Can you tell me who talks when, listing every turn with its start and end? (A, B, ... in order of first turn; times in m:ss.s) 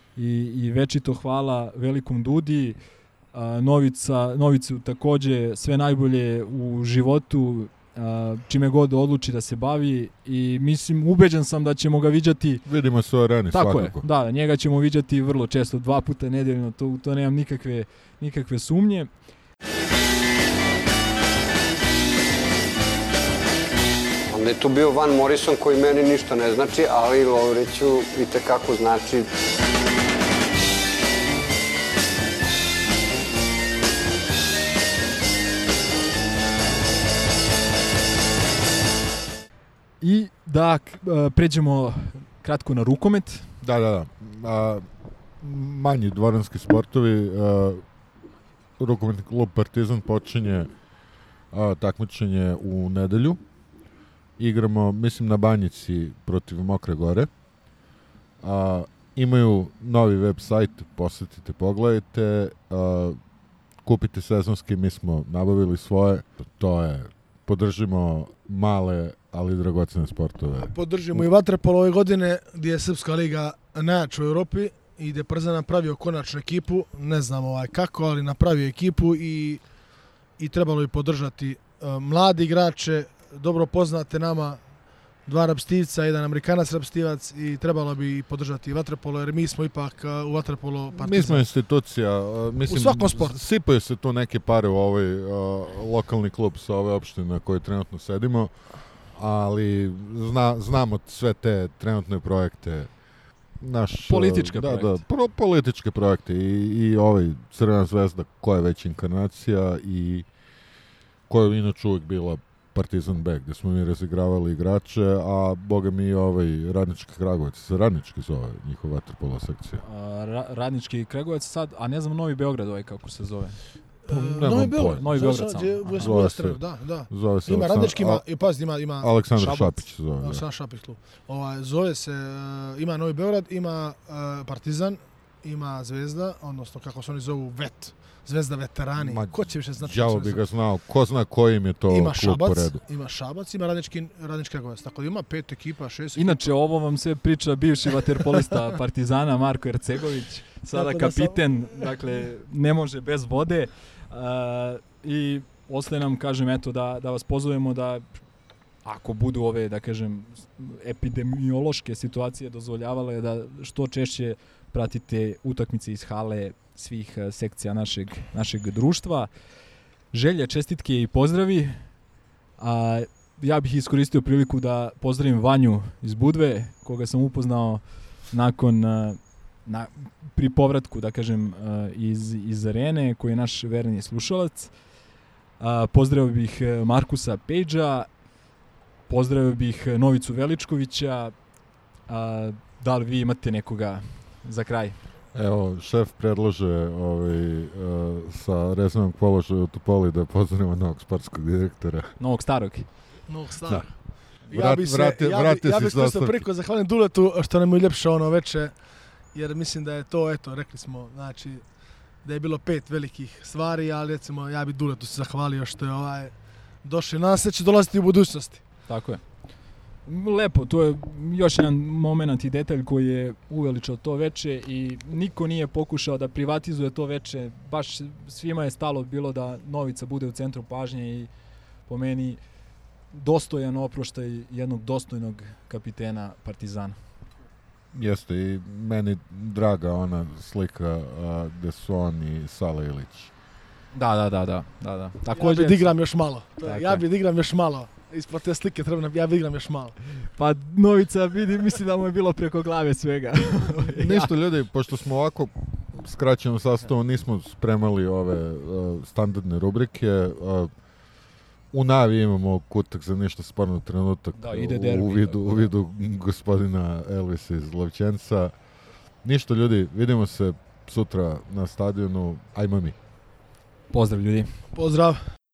0:00.2-0:02.8 A
0:03.3-0:12.6 A
0:12.6-0:14.0 B
0:13.5-0:19.1 A
0:24.3-0:29.3 C
0:40.0-0:43.5 A
0:43.6-0:44.9 B
0:45.4-0:47.8 B
0:48.8-0:50.7 B
0:51.5-0:53.4 B
0:54.4-0:57.3 B
0:58.4-1:03.2 B
1:03.8-1:11.2 B
1:10.6-1:19.6 D
1:20.4-1:24.6 D
1:25.3-1:31.4 D
1:30.9-1:38.5 B
1:32.7-1:33.4 D
1:39.1-1:42.9 B
1:43.6-1:50.3 B
1:44.1-1:45.0 A
1:51.3-1:59.8 B
1:59.8-2:06.1 A
2:04.1-2:09.1 D
2:04.4-2:05.0 B
2:06.0-2:08.2 B
2:09.0-2:10.4 B
2:09.4-2:09.8 A
2:10.2-2:20.4 D
2:19.0-2:22.8 B
2:21.9-2:26.5 D
2:26.2-2:38.1 A
2:28.0-2:28.8 D
2:30.7-2:31.9 D
2:38.8-2:49.3 A
2:50.1-2:51.8 A
2:52.6-3:04.7 A
3:05.6-3:08.1 A
3:09.1-3:11.3 A
3:12.1-3:15.0 A
3:15.3-3:22.1 B
3:22.2-3:22.9 A
3:23.3-3:24.0 D
3:24.5-3:26.4 B
3:24.5-3:28.7 D
3:29.3-3:31.6 D
3:32.2-3:36.3 D
3:36.8-3:38.6 D
3:38.9-3:39.2 A
3:40.0-3:51.3 A
3:51.9-3:52.4 A
3:53.1-3:57.0 A
3:57.9-4:03.3 B
4:03.9-4:06.0 A
4:05.3-4:10.0 D
4:06.6-4:07.0 A
4:10.4-4:14.3 A
4:13.8-4:20.7 B
4:21.7-4:28.5 B
4:24.4-4:25.7 A
4:29.2-4:33.0 B
4:33.9-4:34.5 A
4:34.7-4:35.2 D